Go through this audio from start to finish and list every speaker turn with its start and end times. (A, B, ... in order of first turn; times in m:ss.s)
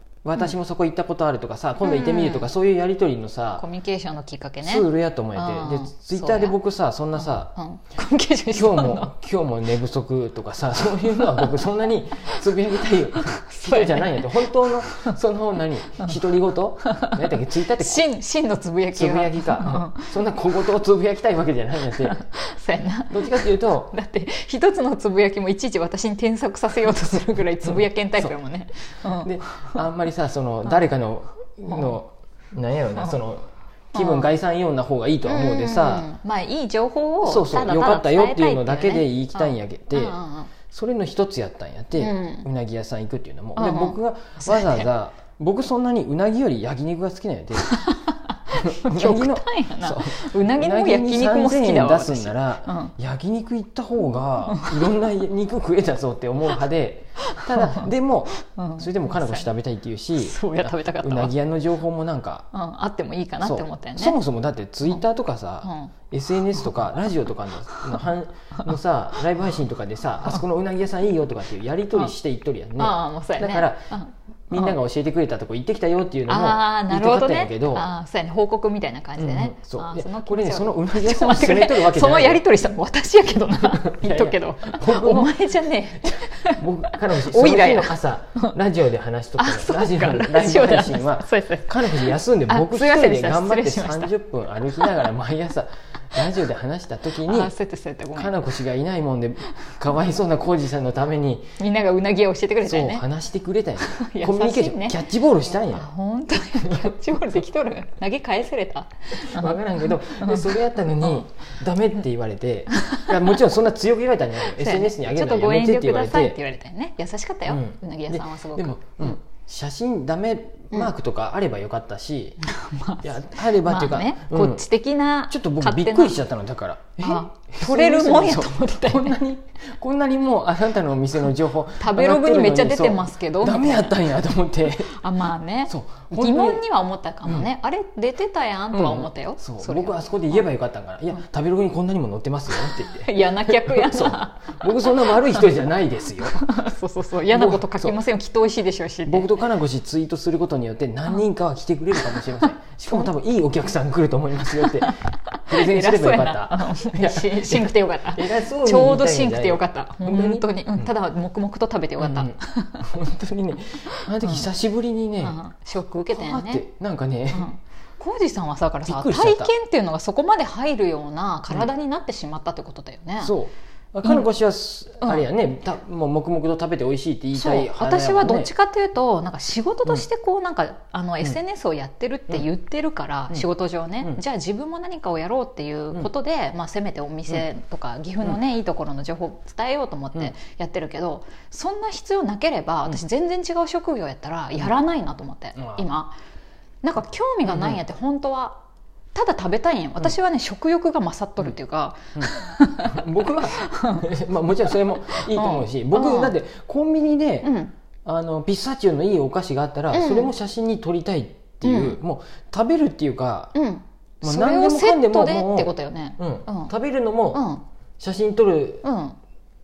0:00.2-0:03.6 A
0:01.8-0:02.5 B
0:03.6-0:06.6 B
0:04.6-0:07.5 A
0:07.2-0:09.1 B
0:08.5-0:18.1 A
0:11.0-0:11.7 B
0:12.2-0:12.6 B
0:13.1-0:15.2 B
0:16.8-0:17.2 B
0:17.8-0:20.2 B
0:18.9-0:22.2 A
0:21.9-0:29.8 B
0:23.1-0:23.9 A
0:29.2-0:36.1 A
0:31.7-0:31.9 B
0:33.9-0:34.3 B
0:35.2-0:40.5 B
0:37.2-0:47.8 A
0:42.0-0:42.5 B
0:43.6-0:44.9 B
0:47.6-0:52.9 B
0:48.6-1:02.5 A
0:54.5-0:55.0 B
0:57.2-0:57.9 B
0:58.5-0:59.5 B
1:00.2-1:01.3 B
1:02.5-1:04.2 B
1:03.4-1:13.9 A
1:05.6-1:05.9 B
1:12.8-1:14.8 B
1:14.5-1:17.9 A
1:16.3-1:28.6 B
1:19.2-1:22.4 A
1:23.8-1:25.3 A
1:26.0-1:37.5 A
1:29.4-1:34.2 B
1:37.2-1:38.4 B
1:38.2-1:41.6 A
1:41.6-1:43.1 B
1:42.6-1:45.9 A
1:43.8-1:45.0 B
1:45.7-1:51.3 B
1:46.6-1:46.9 A
1:49.1-1:56.4 A
1:52.7-1:53.4 B
1:54.4-1:59.2 B
1:57.5-2:02.4 A
2:02.4-2:06.2 B
2:03.0-2:04.7 A
2:05.3-2:15.0 A
2:07.0-2:09.2 B
2:11.8-2:14.1 B
2:14.9-2:20.4 B
2:15.7-2:16.6 A
2:18.7-2:26.5 A
2:22.5-2:25.5 B
2:26.4-2:29.3 B
2:27.3-2:28.0 A
2:29.1-2:40.9 A
2:32.1-2:33.1 B
2:34.6-2:42.9 B
2:42.0-2:45.4 A
2:43.9-2:44.5 B
2:45.2-2:46.6 B
2:46.1-2:47.5 A
2:47.3-2:53.4 B
2:48.9-2:49.5 A
2:53.2-2:58.5 A
2:55.0-2:55.3 B
2:57.3-3:16.2 B
3:15.6-3:15.9 A
3:16.8-3:18.6 B
3:17.4-3:17.8 A
3:19.2-3:24.0 B
3:22.2-3:27.5 A
3:25.1-3:26.3 B
3:27.4-3:27.7 B
3:28.0-3:33.6 A
3:29.9-3:30.3 B
3:31.6-3:32.0 B
3:33.5-3:36.7 B
3:34.2-3:37.4 A
3:37.3-3:37.6 B
3:38.0-3:38.9 A
3:38.8-3:39.2 B